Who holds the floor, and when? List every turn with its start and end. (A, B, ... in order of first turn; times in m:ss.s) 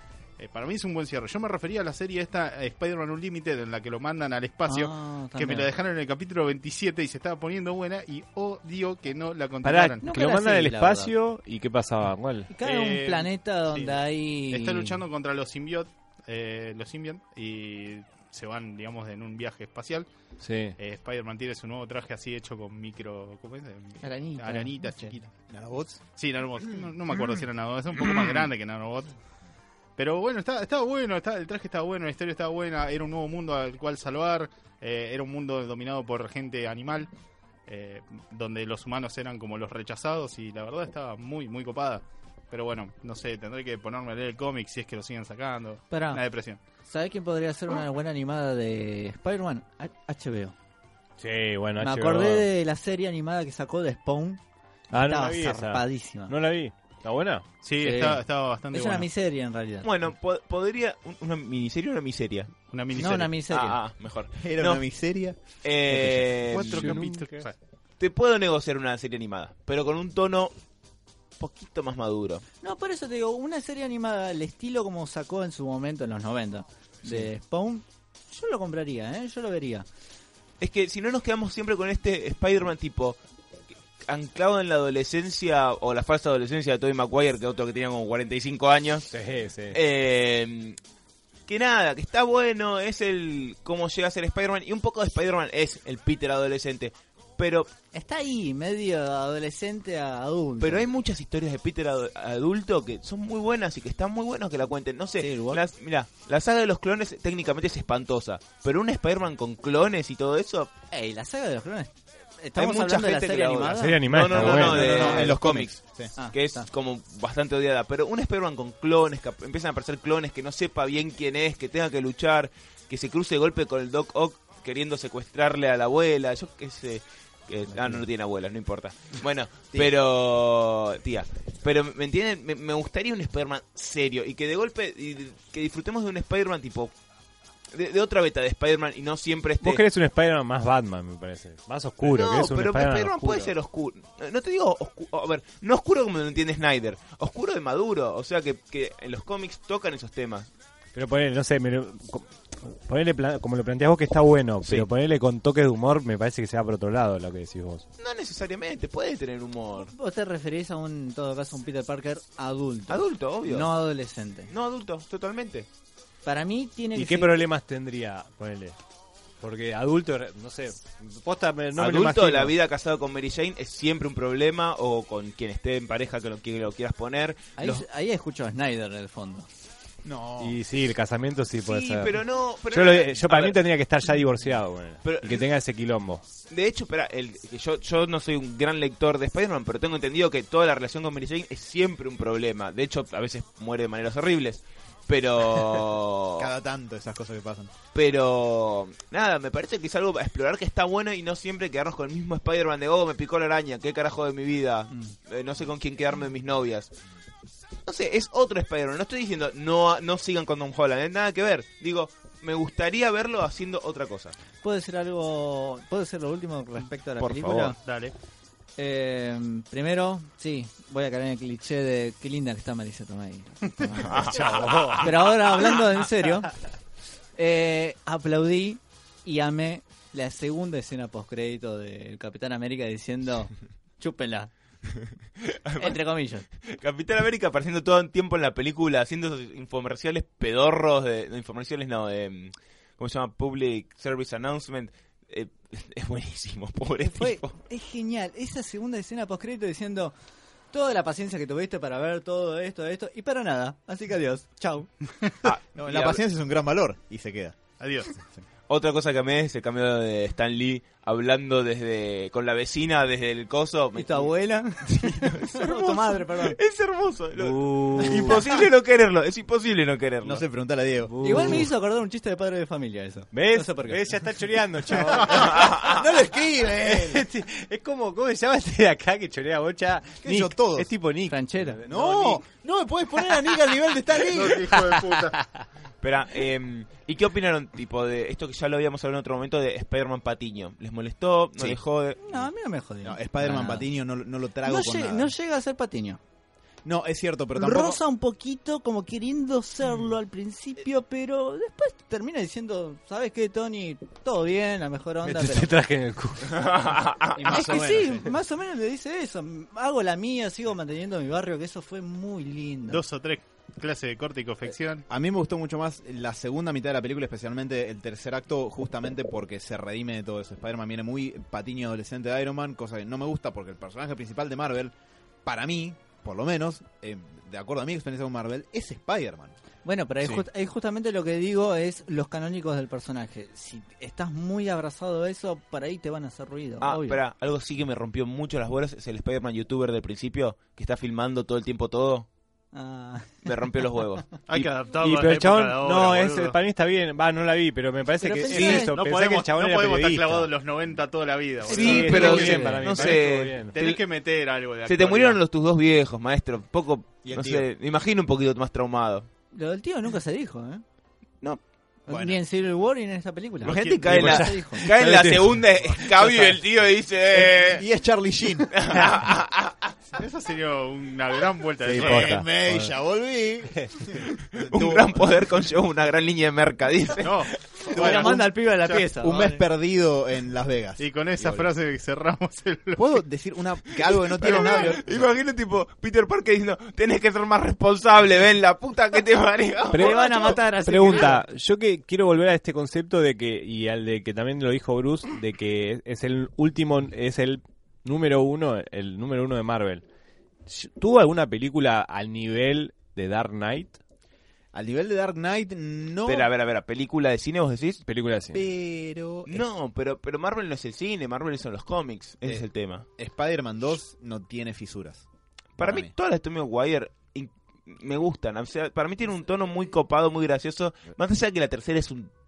0:00.4-0:10.0 A
0:04.7-0:05.7 B
0:09.6-0:12.5 C
0:10.0-0:11.1 B
0:12.5-0:15.0 B
0:12.6-0:20.1 A
0:20.4-0:20.8 C
0:20.8-0:25.3 A
0:24.0-0:25.1 B
0:25.5-0:26.0 D
0:26.2-0:29.1 A
0:30.0-0:37.1 A
0:37.7-0:46.6 A
0:45.9-0:46.2 B
0:46.8-0:50.5 B
0:51.2-0:52.5 C
0:51.8-0:54.4 B
0:54.9-0:57.5 C
0:54.9-0:56.3 B
0:57.6-0:59.1 A
0:57.8-0:59.9 B
0:59.8-1:02.5 E
1:02.7-1:03.3 A
1:02.9-1:03.8 B
1:03.5-1:04.8 E
1:04.4-1:06.7 D
1:05.6-1:07.0 E
1:06.5-1:07.5 A
1:06.6-1:07.4 C
1:08.0-1:10.5 E
1:11.4-1:12.4 E
1:12.6-1:19.8 B
1:20.6-1:23.2 E
1:24.0-1:29.1 E
1:29.1-1:29.8 C
1:29.7-1:30.8 E
1:31.5-1:37.7 E
1:37.9-1:40.9 B
1:40.6-1:50.7 E
1:45.2-1:45.6 B
1:50.9-1:55.3 B
1:52.6-1:55.8 E
1:53.7-1:55.1 C
1:54.4-1:56.1 D
1:56.2-1:56.7 B
1:56.3-2:16.9 E
2:07.7-2:08.0 D
2:17.7-2:19.8 E
2:19.6-2:23.5 C
2:22.0-2:30.5 E
2:30.9-2:37.8 C
2:38.0-2:39.9 E
2:39.8-2:44.5 B
2:42.9-2:43.7 E
2:44.5-2:45.7 E
2:46.2-2:47.3 B
2:46.9-2:48.8 C
2:49.4-2:52.5 C
2:51.8-2:57.8 E
2:57.6-2:59.5 B
3:00.0-3:00.6 D
3:00.4-3:02.2 C
3:01.6-3:03.6 E
3:02.7-3:06.2 C
3:05.0-3:05.5 E
3:06.5-3:16.5 E
3:16.4-3:17.7 D
3:17.9-3:26.9 E
3:27.8-3:34.3 E
3:34.6-3:37.8 B
3:37.2-3:37.7 E
3:37.8-3:38.1 A
3:38.8-3:46.5 B
3:43.8-3:45.1 A
3:44.0-3:45.9 E
3:47.4-3:54.5 B
3:55.4-3:56.0 E
3:55.8-3:56.4 B
3:56.6-4:07.5 E
4:07.2-4:10.1 B
4:10.7-4:14.9 B
4:15.4-4:16.2 E
4:15.4-4:17.6 D
4:17.8-4:18.2 A
4:18.7-4:30.4 E
4:24.0-4:26.6 B
4:27.3-4:28.4 C
4:28.0-4:28.4 B
4:30.2-4:31.6 D
4:31.0-4:31.7 C
4:31.2-4:34.2 B
4:33.3-4:35.8 C
4:35.1-4:37.3 D
4:35.3-4:36.0 E
4:36.7-4:42.4 C
4:40.2-4:40.9 D
4:41.3-4:41.8 B
4:41.8-4:44.7 D
4:44.2-4:45.4 A
4:44.7-4:45.6 C
4:46.0-4:52.2 E
4:52.2-4:53.9 B
4:53.0-4:55.3 D
4:54.6-4:56.2 B
4:56.8-4:58.0 D
4:57.5-5:05.7 B
5:05.2-5:07.0 C
5:06.5-5:07.7 E
5:07.4-5:08.2 D
5:07.4-5:13.0 B
5:12.9-5:15.0 A
5:15.1-5:24.9 D
5:25.4-5:29.5 D
5:29.8-5:37.2 B
5:36.8-5:42.3 E
5:42.7-5:43.5 B
5:43.4-5:44.4 E
5:44.5-5:46.6 A
5:45.0-5:50.5 C
5:48.2-5:49.0 B
5:48.5-5:55.4 A
5:51.6-5:54.0 E
5:51.7-5:53.8 C
5:52.0-5:52.8 B
5:54.8-5:59.3 E
5:57.2-5:57.7 D
5:59.5-6:00.8 B
6:02.0-6:04.9 B
6:02.1-6:02.4 D
6:03.6-6:04.3 A
6:03.6-6:07.8 E
6:04.1-6:06.4 C
6:07.3-6:08.7 D
6:08.7-6:10.0 E
6:10.1-6:12.4 A
6:11.8-6:15.3 D
6:11.9-6:12.9 C
6:14.2-6:17.4 E
6:17.2-6:18.5 A
6:17.8-6:19.6 B
6:17.9-6:21.6 D
6:21.0-6:23.0 A
6:23.0-6:25.2 D
6:24.0-6:30.6 E
6:24.4-6:25.0 A
6:29.9-6:40.0 C
6:29.9-6:31.4 B
6:40.6-6:44.0 C
6:44.7-6:46.5 D
6:46.3-6:48.0 E
6:48.0-6:48.6 C
6:48.5-6:49.6 D
6:49.4-6:53.0 E
6:53.2-6:55.2 D
6:55.8-7:02.3 E
6:55.8-6:56.1 D